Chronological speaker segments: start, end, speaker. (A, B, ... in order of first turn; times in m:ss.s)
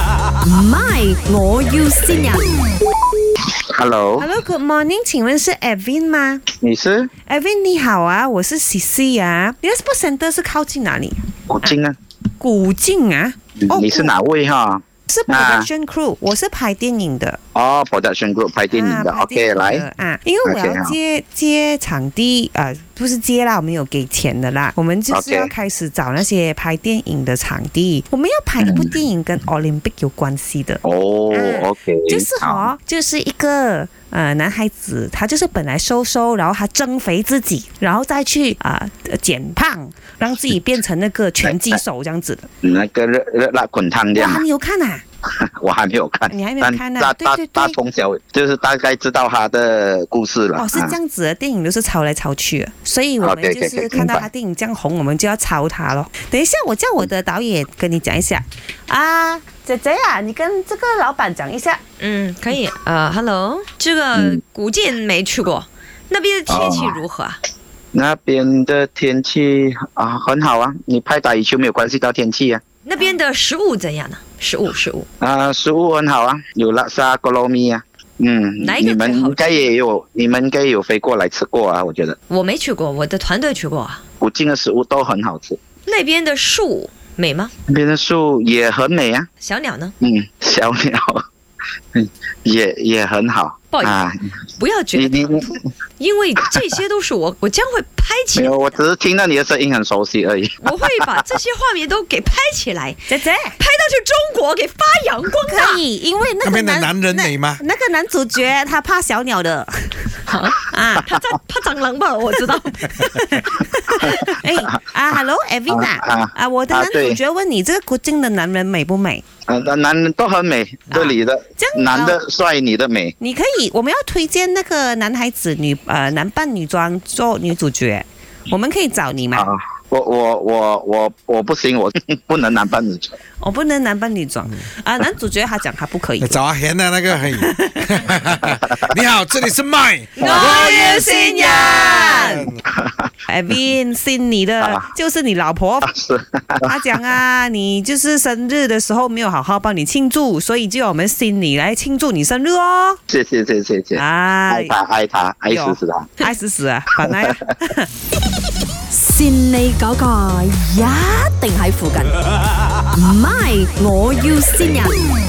0:00.4-0:02.4 A
0:03.7-0:04.3 B
0:04.2-0:06.4 C
0:06.6-0:07.1 B
0:07.3-0:11.7 C
0:11.5-0:11.9 B
0:12.4-0:14.1 C
0:13.6-0:15.7 B
0:15.1-0:17.4 C
0:17.5-0:19.8 B
0:18.7-0:42.5 C
0:20.4-0:21.0 B
0:25.1-0:25.5 B
0:28.6-0:29.0 B
0:30.8-0:32.7 B
0:41.4-0:41.8 B
0:42.6-0:44.4 B
0:44.1-0:45.0 C
0:45.4-0:51.0 B
0:46.3-0:47.8 C
0:50.6-1:01.8 C
0:53.2-0:54.3 B
1:02.0-1:07.4 D
1:04.1-1:04.4 B
1:06.5-1:07.0 B
1:07.9-1:12.6 B
1:12.8-1:15.1 D
1:15.2-1:22.2 B
1:18.6-1:19.5 D
1:22.3-1:24.0 D
1:24.2-1:25.6 B
1:25.9-1:27.5 D
1:27.7-1:29.3 B
1:29.4-1:29.9 D
1:30.0-1:31.2 B
1:31.9-1:34.4 B
1:33.7-1:34.0 D
1:34.6-1:38.6 D
1:34.9-1:35.6 B
1:38.3-1:40.7 B
1:40.6-1:43.0 D
1:43.1-1:43.6 C
1:43.6-1:45.8 D
1:45.5-1:50.1 C
1:46.4-1:47.6 E
1:50.2-1:53.1 D
1:50.7-1:51.1 C
1:52.9-1:59.2 C
1:55.7-1:57.2 B
1:59.5-2:03.1 B
2:00.9-2:02.2 C
2:03.2-2:09.5 C
2:09.3-2:13.1 B
2:13.4-2:16.4 C
2:16.2-2:20.8 E
2:20.2-2:22.3 D
2:20.2-2:22.5 C
2:22.3-2:22.6 E
2:23.3-2:25.9 C
2:24.6-2:24.9 B
2:25.9-2:26.7 B
2:26.6-2:33.0 C
2:33.1-2:36.1 B
2:34.0-2:34.7 C
2:35.5-2:37.9 C
2:37.0-2:37.4 B
2:38.9-2:42.2 A
2:42.9-2:45.0 A